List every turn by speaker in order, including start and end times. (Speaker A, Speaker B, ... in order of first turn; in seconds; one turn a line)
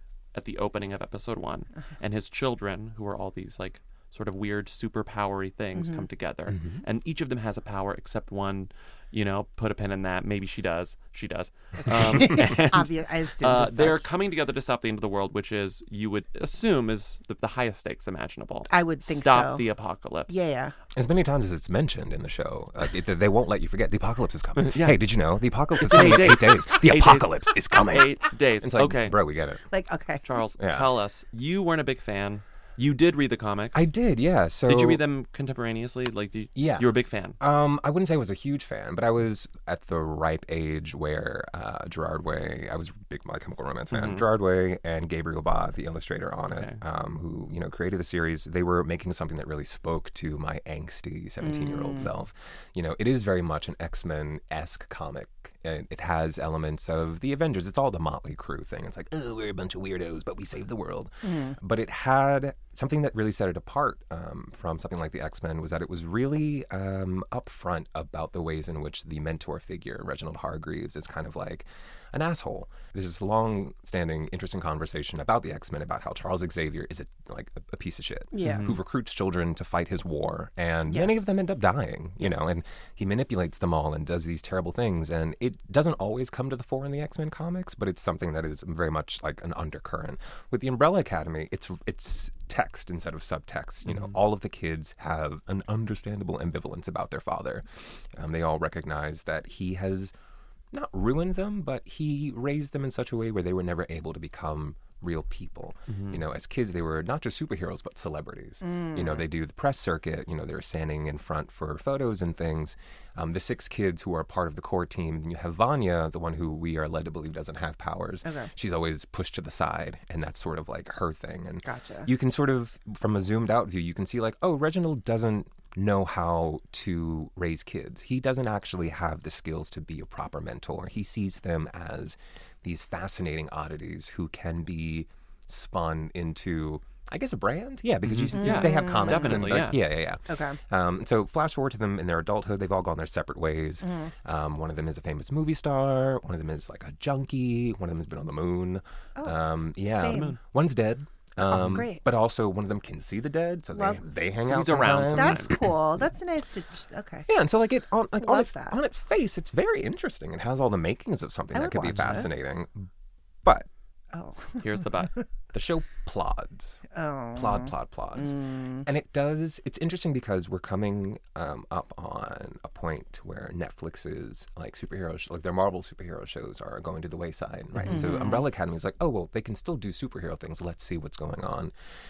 Speaker A: 0.3-20.4
Speaker B: 5.8-6.1
Speaker C: 6.5-6.8
Speaker B: 11.8-14.1
Speaker C: 11.9-12.6
Speaker B: 18.7-19.6
Speaker B: 20.3-20.8
Speaker C: 20.9-29.6
Speaker A: 24.6-25.0
Speaker A: 25.8-29.2
Speaker B: 29.7-30.2
Speaker A: 30.2-33.9
Speaker C: 30.6-30.9
Speaker C: 33.7-35.0
Speaker A: 34.7-37.4
Speaker C: 36.5-36.9
Speaker C: 37.4-100.1
Speaker A: 43.9-44.2
Speaker A: 46.5-46.8
Speaker B: 51.4-52.1
Speaker B: 61.2-61.6
Speaker B: 78.3-78.8
Speaker A: 78.4-78.7
Speaker B: 80.9-81.3
Speaker B: 82.2-82.5
Speaker A: 93.9-94.2
Speaker C: 100.7-155.7
Speaker A: 105.9-106.2
Speaker B: 108.6-109.2
Speaker B: 118.2-118.5
Speaker B: 121.6-122.1
Speaker A: 138.0-139.8
Speaker B: 138.4-139.6
Speaker B: 140.3-140.6
Speaker B: 143.8-144.1
Speaker B: 149.2-150.4
Speaker B: 151.4-152.0
Speaker B: 153.7-154.0
Speaker A: 154.4-155.7
Speaker B: 155.1-157.3
Speaker C: 157.3-162.9
Speaker B: 158.2-158.8
Speaker B: 161.5-162.4
Speaker B: 164.1-165.2
Speaker A: 164.6-165.1
Speaker C: 165.5-166.8
Speaker B: 166.9-168.9
Speaker C: 167.3-181.7
Speaker B: 177.9-178.4